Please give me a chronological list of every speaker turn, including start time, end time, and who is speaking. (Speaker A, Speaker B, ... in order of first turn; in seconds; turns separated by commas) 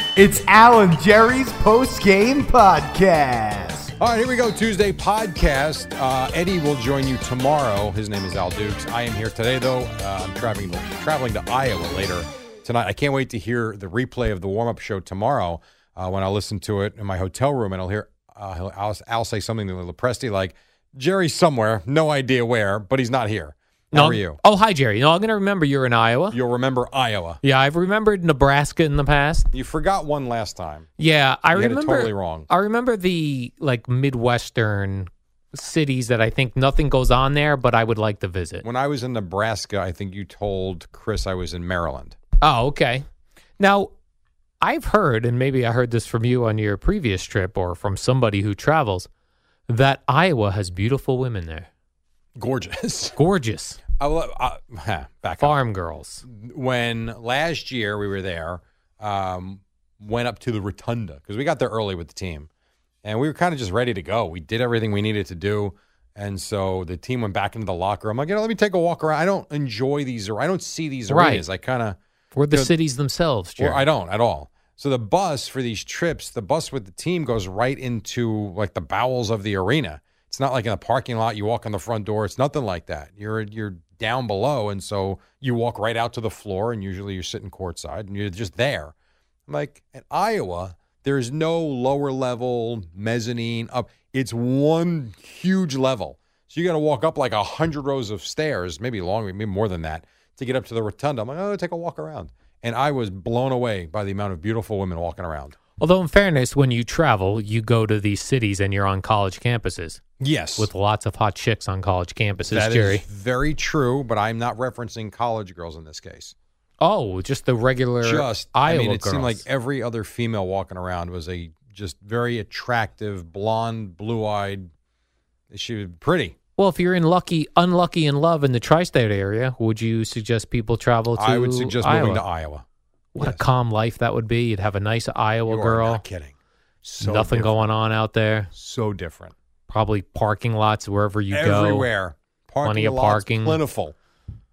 Speaker A: 0.2-3.9, Speaker B: 4.0-24.4, Speaker C: 23.9-26.4, Speaker B: 26.3-27.4, Speaker C: 27.4-29.5, Speaker B: 29.5-30.9, Speaker C: 31.0-38.6, Speaker B: 31.5-32.5, Speaker B: 38.6-42.2, Speaker C: 42.4-43.0, Speaker C: 43.6-43.9, Speaker C: 44.6-49.1, Speaker C: 49.7-51.7, Speaker B: 52.4-53.2, Speaker C: 53.2-53.8, Speaker B: 54.0-55.6, Speaker C: 55.4-56.2, Speaker B: 56.2-62.5, Speaker B: 63.0-72.0, Speaker C: 71.1-71.4, Speaker C: 72.3-73.8, Speaker B: 73.6-88.9, Speaker B: 89.5-105.6, Speaker C: 105.8-110.0, Speaker B: 110.2-110.7, Speaker C: 110.6-113.0, Speaker B: 112.4-116.3, Speaker C: 116.8-119.4, Speaker B: 118.0-124.7, Speaker B: 125.5-126.4, Speaker C: 126.6-132.2, Speaker B: 131.2-132.6, Speaker C: 133.1-136.0, Speaker B: 133.2-133.4, Speaker B: 135.5-137.6, Speaker C: 137.0-138.5, Speaker B: 138.5-139.3, Speaker C: 139.7-141.9, Speaker B: 141.3-143.9, Speaker C: 142.6-143.6